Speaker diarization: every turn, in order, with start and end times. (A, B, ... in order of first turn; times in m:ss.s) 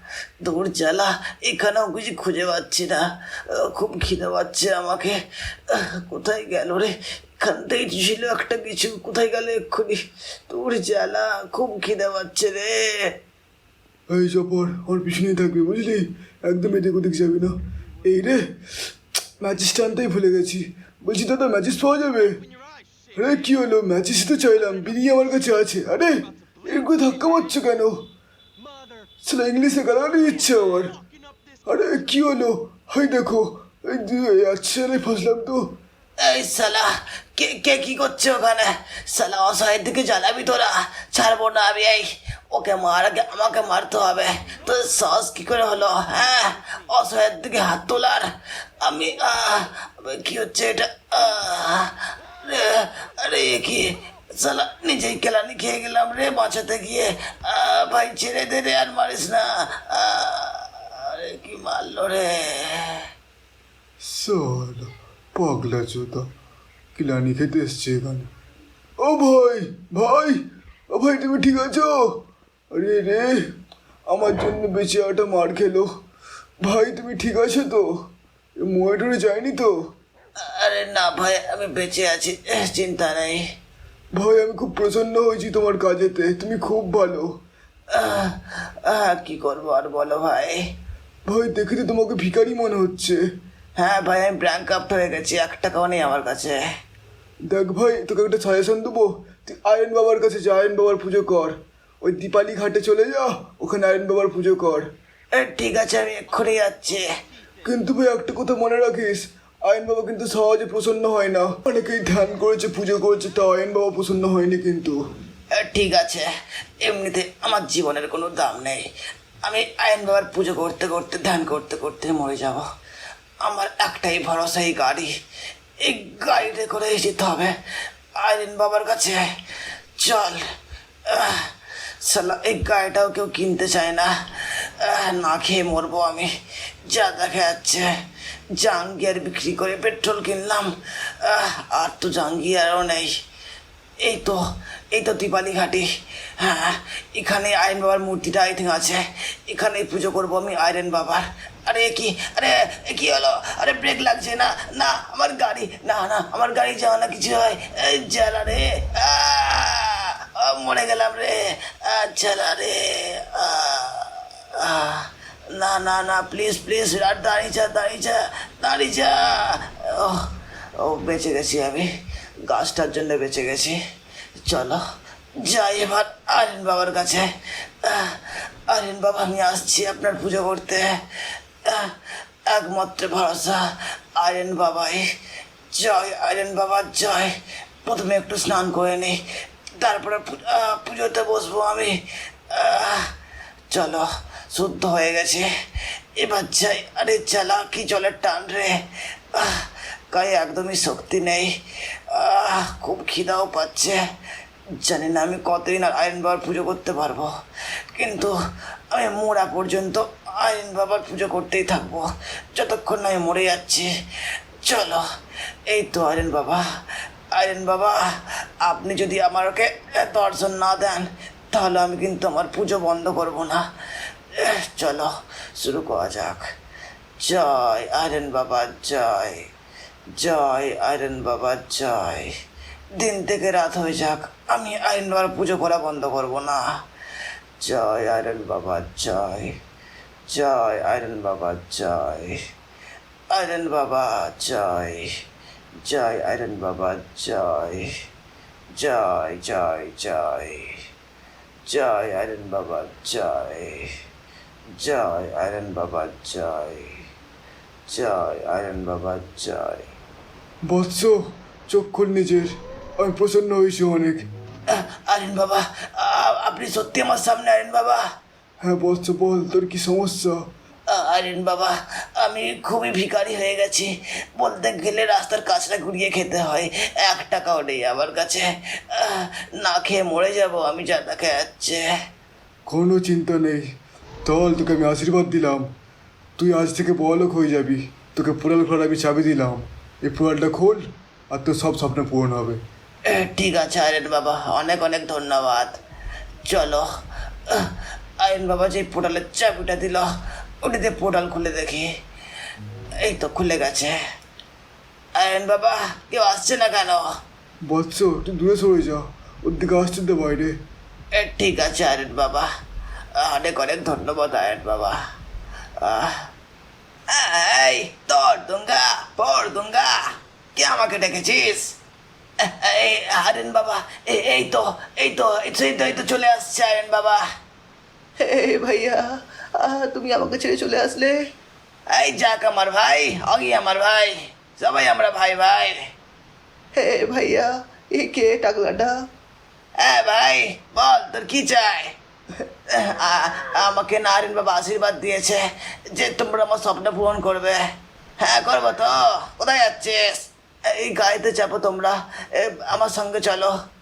0:00.4-0:13.1 A
0:14.1-0:18.5 B
0:19.4-0:22.4 B
0:23.1-0:28.0 B
0:29.2-0:30.9 B
0:31.6-0:35.6 B
0:36.2-1:03.0 A
1:04.0-1:06.3 B
1:06.9-1:08.3 B
1:09.0-1:12.1 B
1:12.7-1:13.4 B
1:14.1-1:15.9 B
1:16.6-1:17.9 B
1:18.6-1:19.7 B
1:20.4-1:23.4 A
1:24.1-1:27.3 B
1:27.9-1:30.6 A
1:31.2-1:33.2 B
1:33.8-1:36.6 A
1:37.5-1:44.8 B
1:45.3-1:47.1 A
1:47.6-1:55.0 B
1:55.5-1:56.3 A
1:56.8-1:58.8 A
1:59.4-2:02.6 A
2:03.4-2:05.1 A
2:05.8-2:07.5 A
2:08.2-2:09.2 A
2:10.0-2:10.4 A
2:11.1-2:11.5 A
2:12.0-2:16.3 A
2:16.8-2:17.9 A
2:18.5-2:23.1 A
2:24.0-2:25.9 A
2:26.4-2:51.9 A
2:52.5-2:53.8 A
2:54.4-2:54.8 A
2:55.4-2:57.3 A
2:57.8-3:01.0 A
3:01.6-3:01.9 A
3:02.5-3:05.0 A
3:05.7-3:07.3 A
3:07.8-3:09.2 A
3:09.8-3:12.0 A
3:12.5-3:13.1 A
3:13.7-3:15.5 A
3:16.2-3:18.8 A
3:19.3-3:21.5 A
3:22.1-3:24.0 A
3:24.8-3:27.3 A
3:27.9-3:28.3 A
3:28.9-3:33.9 A
3:34.6-3:35.0 A
3:35.7-3:36.6 A
3:37.3-3:38.0 A
3:38.6-3:43.7 A
3:44.4-3:46.4 A
3:47.2-3:49.5 A
3:50.1-3:52.3 A
3:53.0-3:56.7 A
3:57.6-3:59.6 A
4:00.3-4:02.4 A
4:03.3-4:05.1 A
4:05.8-4:07.9 A
4:08.8-4:10.7 A
4:11.6-4:13.9 A
4:14.8-4:17.0 A
4:17.9-4:19.8 A
4:20.6-4:24.2 B
4:24.7-4:28.0 A
4:28.6-4:30.4 B
4:30.9-4:41.9 A
4:42.7-4:43.7 B
4:44.2-4:45.7 B
4:46.4-4:52.6 B
4:53.1-4:55.8 A
4:56.4-4:56.9 A
4:57.5-5:00.1 A
5:00.6-5:01.9 A
5:03.0-5:04.0 A
5:05.2-5:07.1 A
5:07.7-5:10.5 B
5:11.1-5:12.5 A
5:13.1-5:15.0 A
5:15.8-5:16.3 A
5:17.1-5:20.0 A
5:20.6-5:21.7 A
5:22.4-5:27.2 A
5:28.2-5:31.2 C
5:31.9-5:35.8 A
5:36.8-5:38.9 C
5:39.8-5:41.9 A
5:42.7-5:47.6 A
5:48.2-5:53.5 A